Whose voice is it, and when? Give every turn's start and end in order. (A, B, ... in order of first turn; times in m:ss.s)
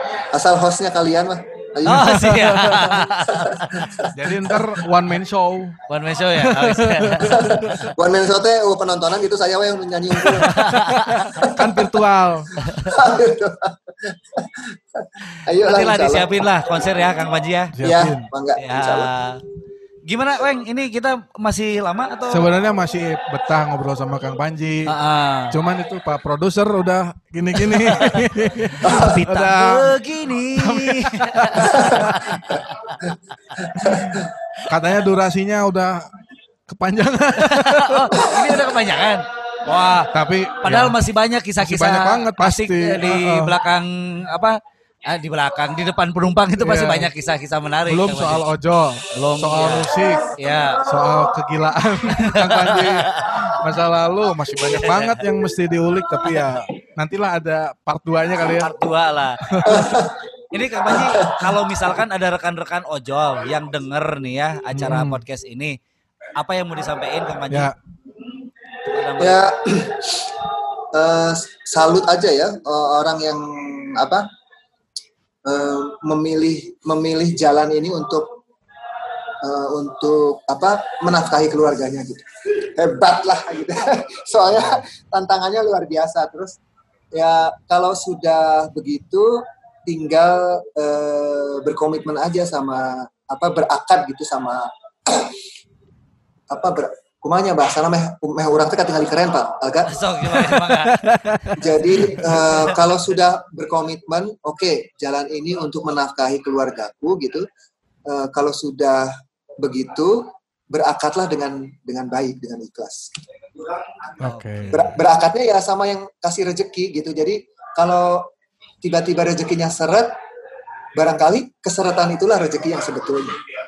0:00.2-0:02.4 A
0:01.8-0:03.0 B
0:01.8-0:03.7 C
0:03.1-0:04.8 A
0:04.1-0:05.8 B
0:05.9-0:07.7 C
0:06.4-0:07.8 B
0:07.2-0:10.6 A
0:10.3-0:11.6 C
0:10.4-0:12.5 B
0:11.4-0:11.9 A
0:12.6-0:13.0 C
0:12.8-0:16.4 A
0:15.6-0:17.8 C
0:17.8-0:18.3 B
0:17.8-0:19.1 A
0:18.6-0:19.4 C
0:20.1-0:22.5 C
0:22.3-0:24.9 B
0:24.9-0:25.6 C
0:25.5-0:30.0 B
0:27.6-0:34.0 C
0:28.8-0:29.1 A
0:30.6-0:32.4 B
0:31.7-0:32.2 A
0:33.7-0:34.3 A
0:33.8-0:36.1 B
0:36.7-0:38.1 B
0:37.4-0:40.1 C
0:40.1-0:41.0 B
0:40.6-0:48.5 C
0:41.6-0:43.6 B
0:46.6-0:47.1 B
0:47.9-0:50.3 B
0:49.1-0:50.8 C
0:50.9-0:58.7 B
0:52.2-0:53.5 C
0:54.6-0:55.3 C
0:58.4-0:59.9 C
0:59.5-1:00.0 B
0:59.6-1:00.2 A
1:00.5-1:05.8 C
1:00.9-1:01.6 A
1:04.7-1:05.2 B
1:06.4-1:07.7 C
1:07.5-1:07.8 B
1:08.9-1:09.4 C
1:09.2-1:10.3 A
1:10.9-1:14.3 A
1:15.5-1:18.3 A
1:19.4-1:26.6 A
1:27.2-1:35.4 A
1:36.5-1:40.0 A
1:39.9-1:42.8 C
1:40.2-1:42.4 B
1:41.6-1:47.5 A
1:48.1-1:53.1 A
1:54.2-1:54.7 B
1:54.2-1:55.0 C
1:54.7-1:58.3 A
1:58.8-2:00.2 A
2:01.0-2:03.4 A